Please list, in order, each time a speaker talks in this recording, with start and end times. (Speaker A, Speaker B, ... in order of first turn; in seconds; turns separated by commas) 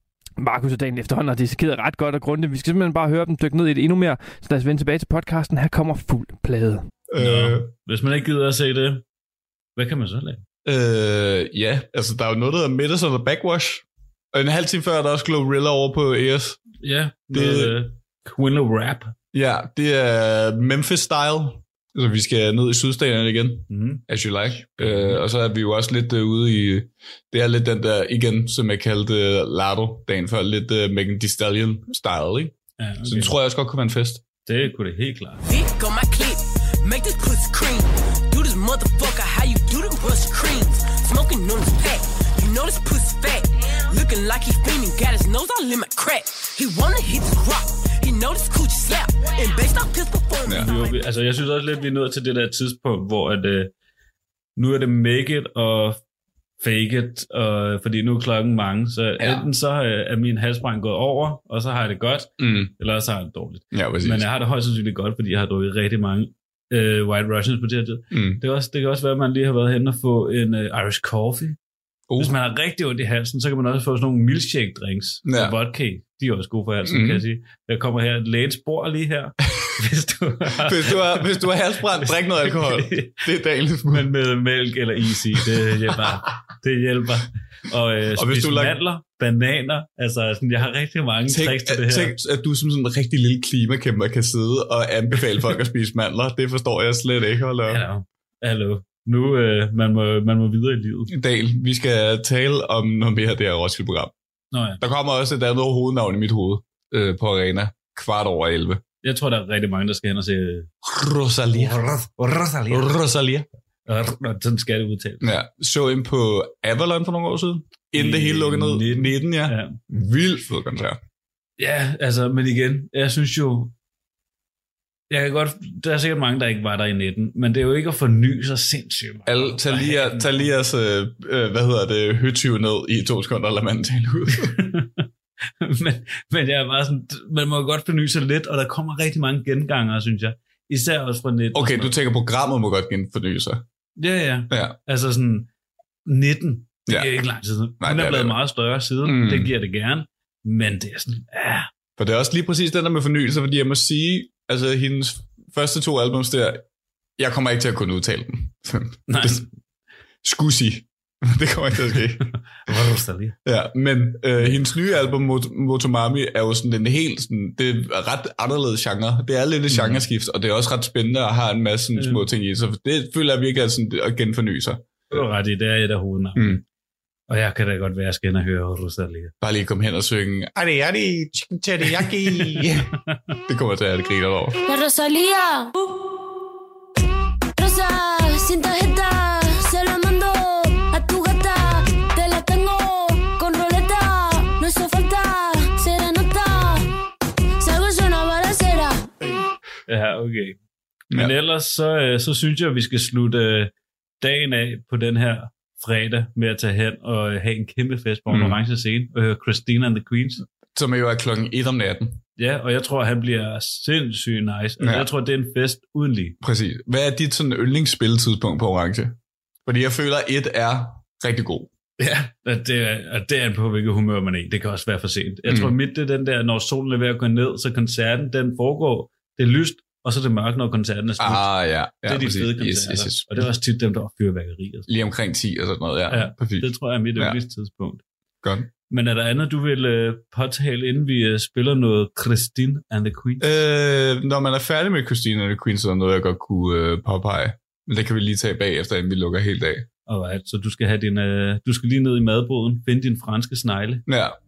Speaker A: 0.4-6.8, Speaker B: 7.1-7.7, Speaker C: 7.2-9.0, Speaker C: 9.8-10.4, Speaker B: 10.6-16.6, Speaker C: 16.8-19.1, Speaker B: 17.3-17.8, Speaker B: 19.3-34.2, Speaker C: 23.7-24.0, Speaker C: 24.7-25.2, Speaker C: 32.8-33.3, Speaker C: 34.5-35.5, Speaker D: 35.5-51.0, Speaker B: 50.4-50.7, Speaker C: 50.6-53.7, Speaker C: 54.5-56.0, Speaker C: 56.6-71.6, Speaker B: 59.2-59.5, Speaker B: 62.4-62.7, Speaker B: 63.7-64.3, Speaker B: 68.1-68.4, Speaker B: 72.1-72.3, Speaker C: 72.2-83.3, Speaker B: 75.2-75.5, Speaker B: 76.8-77.2, Speaker B: 80.6-84.1, Speaker C: 83.9-92.2, Speaker B: 85.9-86.1, Speaker B: 88.2-88.8, Speaker B: 91.3-97.8, Speaker C: 97.7-101.1, Speaker B: 101.1-104.1, Speaker C: 104.5-104.8, Speaker B: 104.8-108.8, Speaker C: 109.0-110.7, Speaker B: 110.8-111.8, Speaker C: 111.5-113.0, Speaker B: 112.7-113.5, Speaker C: 113.9-115.3, Speaker B: 115.2-121.0, Speaker C: 117.9-119.8, Speaker C: 121.6-123.7, Speaker C: 125.1-130.5, Speaker B: 129.3-134.6, Speaker C: 134.3-135.0, Speaker C: 135.6-141.9, Speaker B: 141.5-143.6, Speaker C: 144.0-145.5, Speaker B: 144.5-144.8, Speaker C: 146.1-151.7, Speaker B: 147.8-148.3, Speaker B: 149.0-149.5, Speaker B: 152.0-156.6, Speaker B: 157.2-159.5, Speaker C: 159.1-159.5, Speaker B: 160.2-162.3, Speaker C: 162.6-163.4, Speaker B: 163.4-175.2, Speaker C: 164.4-164.7, Speaker C: 169.7-170.0, Speaker C: 171.9-172.3, Speaker C: 175.1-176.6, Speaker C: 177.3-179.3, Speaker B: 179.4-182.9, Speaker C: 181.9-183.2, Speaker B: 183.5-184.6, Speaker E: 184.6-186.0, Speaker E: 187.6-196.9, Speaker E: 197.6-199.1, Speaker C: 199.9-200.6, Speaker C: 201.1-210.4, Speaker B: 208.3-208.6, Speaker B: 210.7-212.2, Speaker C: 212.4-216.3, Speaker B: 214.8-215.1, Speaker B: 216.4-221.7, Speaker C: 222.0-234.9, Speaker B: 225.5-225.7, Speaker B: 231.2-233.5, Speaker B: 234.9-237.4, Speaker C: 236.1-238.0, Speaker B: 238.4-238.7, Speaker C: 238.9-243.5, Speaker B: 243.4-249.9, Speaker C: 250.1-254.0, Speaker B: 254.1-254.4